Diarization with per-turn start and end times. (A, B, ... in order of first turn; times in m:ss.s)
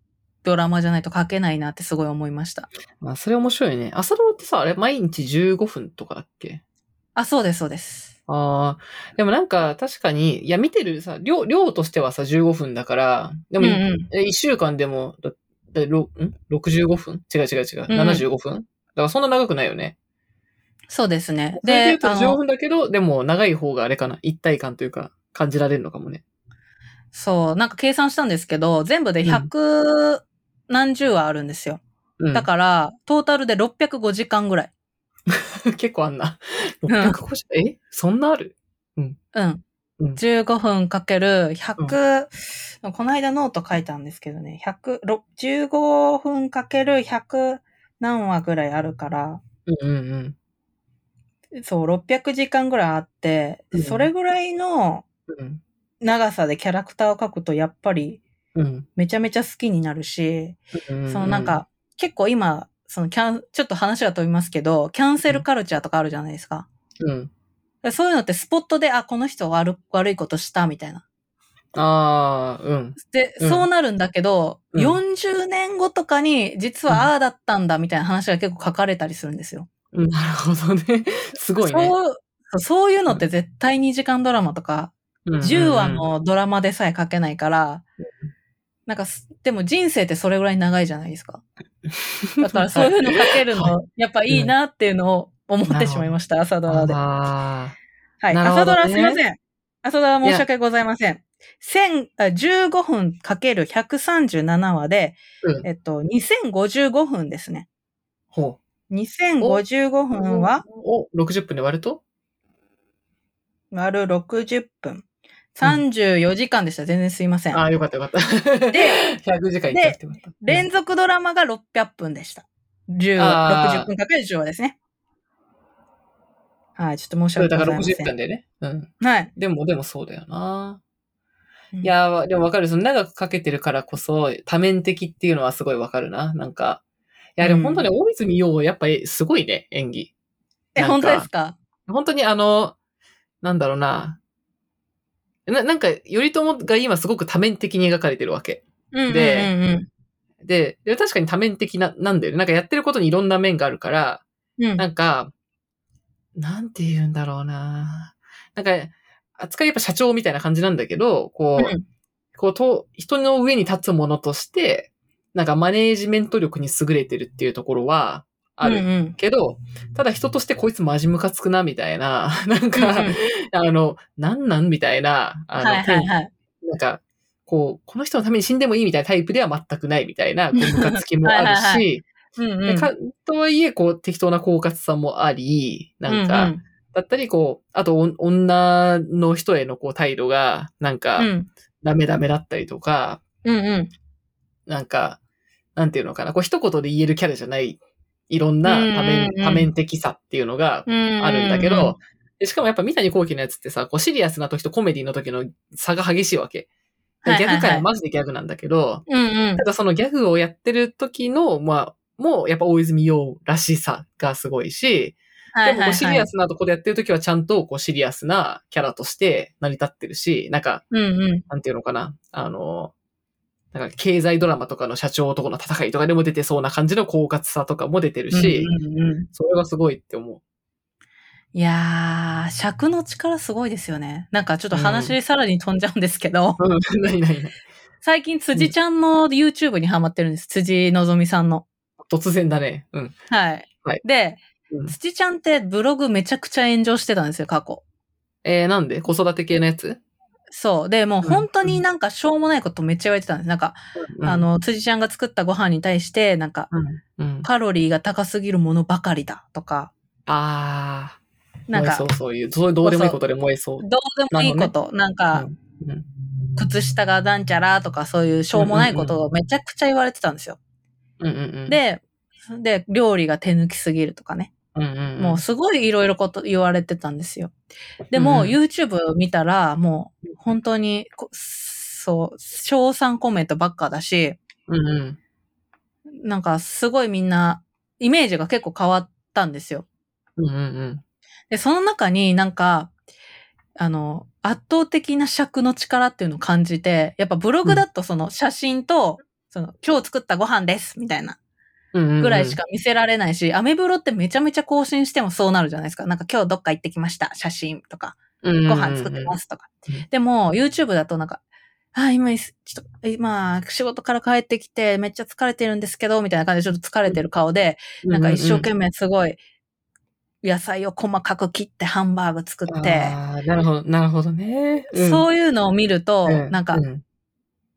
0:00.4-0:02.7 A
0:03.0-0:06.6 B
0:07.2-0:08.1 A
0:08.3-0:19.9 B
0:13.6-0:14.1 A
0:17.9-0:18.2 A
0:20.9-0:22.4 A
0:21.6-0:26.2 B
0:27.1-0:31.8 A
0:32.2-0:32.5 B
0:32.3-0:34.7 A
0:35.3-0:39.2 B
0:36.9-0:37.2 A
0:39.3-0:39.6 A
0:40.2-0:49.4 A
0:49.6-0:50.4 B
0:51.6-0:55.0 A
0:53.7-0:54.1 B
0:55.3-0:55.6 B
0:56.0-0:58.2 A
0:58.5-0:58.9 B
0:59.0-1:06.7 A
1:00.7-1:01.6 B
1:07.0-1:07.3 B
1:07.8-1:11.0 A
1:11.7-1:13.7 B
1:13.0-1:19.7 A
1:14.7-1:15.0 B
1:19.9-1:21.9 B
1:21.6-1:27.8 A
1:25.3-1:26.0 B
1:28.9-1:31.4 A
1:32.2-1:33.7 B
1:32.4-1:37.0 A
1:35.7-1:36.1 B
1:36.7-1:37.8 B
1:38.2-1:47.7 A
1:38.3-1:39.2 B
1:48.3-1:48.6 B
1:48.9-1:50.6 A
1:50.2-1:52.0 B
1:53.7-1:57.6 A
1:57.5-2:00.6 B
1:58.7-1:59.0 A
1:59.7-2:04.8 A
2:03.2-2:03.9 B
2:06.8-2:08.1 A
2:07.4-2:10.8 B
2:09.0-2:09.3 A
2:11.8-2:16.8 B
2:17.4-2:20.1 B
2:17.4-2:17.9 A
2:20.7-2:21.6 A
2:20.8-2:21.3 B
2:21.9-2:22.8 B
2:23.4-2:24.2 B
2:25.5-2:29.5 B
2:28.9-2:29.9 A
2:30.4-2:34.2 B
2:34.6-2:34.8 A
2:34.8-2:35.3 B
2:36.4-2:41.7 B
2:41.6-2:41.8 A
2:42.4-2:56.1 B
2:48.6-2:49.2 A
2:52.8-2:53.2 A
2:55.6-2:56.3 A
2:56.6-3:02.0 B
3:00.6-3:01.8 A
3:02.4-3:02.9 A
3:02.7-3:11.3 B
3:06.1-3:06.6 A
3:11.2-3:11.5 A
3:11.8-3:13.2 B
3:13.4-3:13.9 A
3:14.7-3:15.2 B
3:15.8-3:26.7 B
3:18.6-3:19.7 A
3:20.9-3:22.0 A
3:27.2-3:27.9 A
3:27.3-3:29.0 B
3:29.1-3:29.6 A
3:29.6-3:40.8 B
3:35.5-3:36.3 A
3:40.9-3:41.4 A
3:41.5-3:42.9 B
3:43.7-3:48.7 B
3:48.3-3:49.3 A
3:49.3-3:50.4 B
3:51.5-3:56.6 A
3:54.7-3:55.2 B
3:56.6-3:57.5 B
3:58.0-4:01.6 A
4:02.0-4:03.1 B
4:03.3-4:07.8 A
4:08.4-4:10.0 B
4:10.5-4:16.7 A
4:11.2-4:11.8 B
4:14.0-4:14.5 B
4:16.7-4:17.5 B
4:17.4-4:19.9 A
4:20.3-4:21.2 B
4:21.7-4:22.1 A
4:21.7-4:24.7 B
4:22.8-4:23.2 A
4:23.8-4:25.4 A
4:25.3-4:26.1 B
4:26.6-4:30.6 A
4:28.5-4:29.2 B
4:31.2-4:31.8 B
4:31.7-4:34.5 A
4:34.7-4:35.4 B
4:35.2-4:37.5 A
4:38.1-4:44.4 A
4:38.1-4:38.6 B
4:44.7-4:45.2 B
4:46.2-4:49.8 A
4:50.4-4:51.0 B
4:51.5-4:52.9 A
4:53.8-5:01.4 A
5:01.9-5:02.6 B
5:02.2-5:11.4 A
5:08.4-5:09.3 B
5:11.9-5:19.4 A
5:18.0-5:18.7 B
5:20.4-5:23.2 A
5:22.7-5:25.2 B
5:24.9-5:26.8 A
5:26.2-5:27.0 B